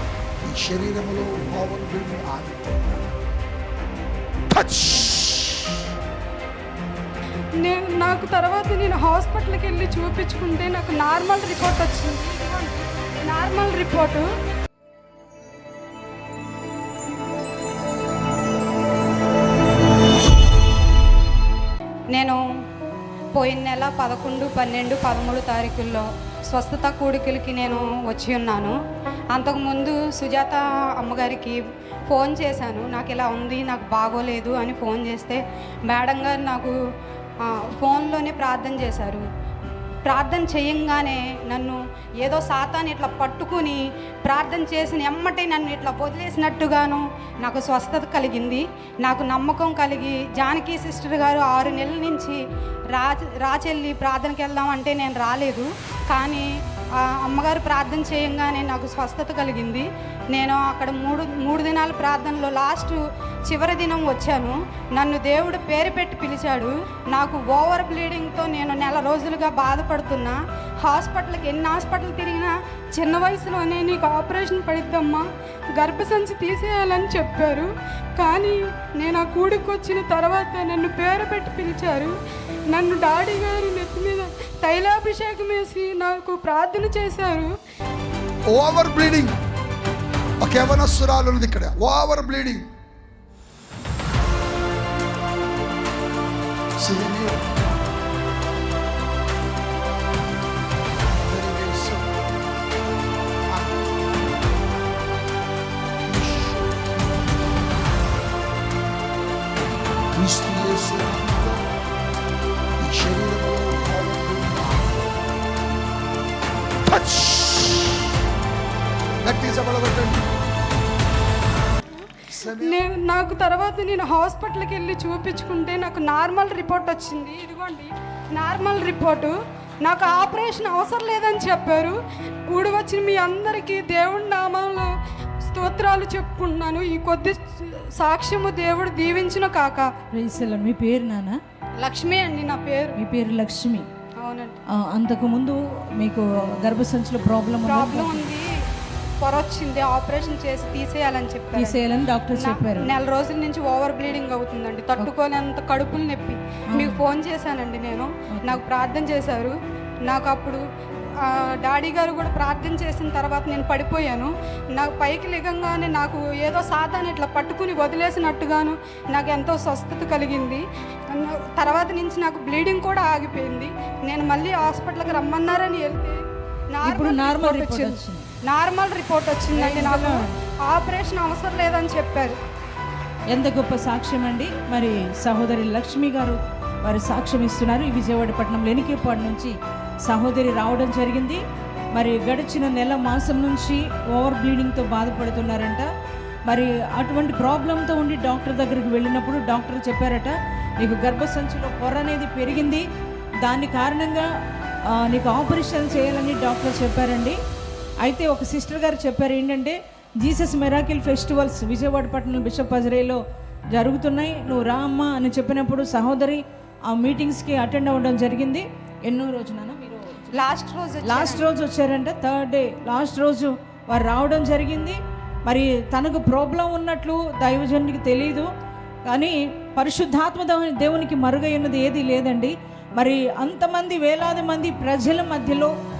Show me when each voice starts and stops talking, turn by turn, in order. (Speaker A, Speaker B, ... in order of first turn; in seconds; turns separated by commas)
Speaker A: 0.4-3.0, Speaker A: 4.5-5.6, Speaker B: 7.6-14.3, Speaker B: 22.1-22.4, Speaker B: 23.4-28.8, Speaker B: 29.3-31.6, Speaker B: 32.1-36.8, Speaker B: 37.4-39.2, Speaker B: 40.0-52.4, Speaker B: 52.9-75.2, Speaker B: 75.8-82.1, Speaker B: 82.7-87.5, Speaker A: 88.5-89.3, Speaker A: 90.4-92.7, Speaker A: 96.8-97.7, Speaker A: 101.1-102.1, Speaker A: 103.5-103.9, Speaker A: 106.0-107.5, Speaker A: 110.1-111.6, Speaker A: 112.8-115.1, Speaker A: 116.8-117.9, Speaker A: 119.2-120.3, Speaker A: 122.3-122.8, Speaker B: 122.5-134.9, Speaker B: 135.4-139.9, Speaker C: 140.1-141.4, Speaker B: 141.8-143.0, Speaker C: 143.0-143.9, Speaker B: 144.2-144.6, Speaker C: 144.7-148.3, Speaker B: 147.7-148.5, Speaker B: 149.2-151.8, Speaker C: 151.5-152.9, Speaker B: 152.3-159.6, Speaker C: 156.7-157.0, Speaker C: 158.3-158.6, Speaker B: 160.1-160.6, Speaker B: 161.2-176.2, Speaker B: 176.7-182.4, Speaker C: 176.8-178.3, Speaker C: 179.5-180.4, Speaker C: 183.3-189.5, Speaker C: 190.1-191.4, Speaker C: 191.9-195.9, Speaker C: 196.5-202.8, Speaker C: 203.4-204.3, Speaker C: 204.9-207.4, Speaker C: 208.0-220.5, Speaker B: 220.3-221.5, Speaker C: 221.0-228.5, Speaker C: 229.1-235.7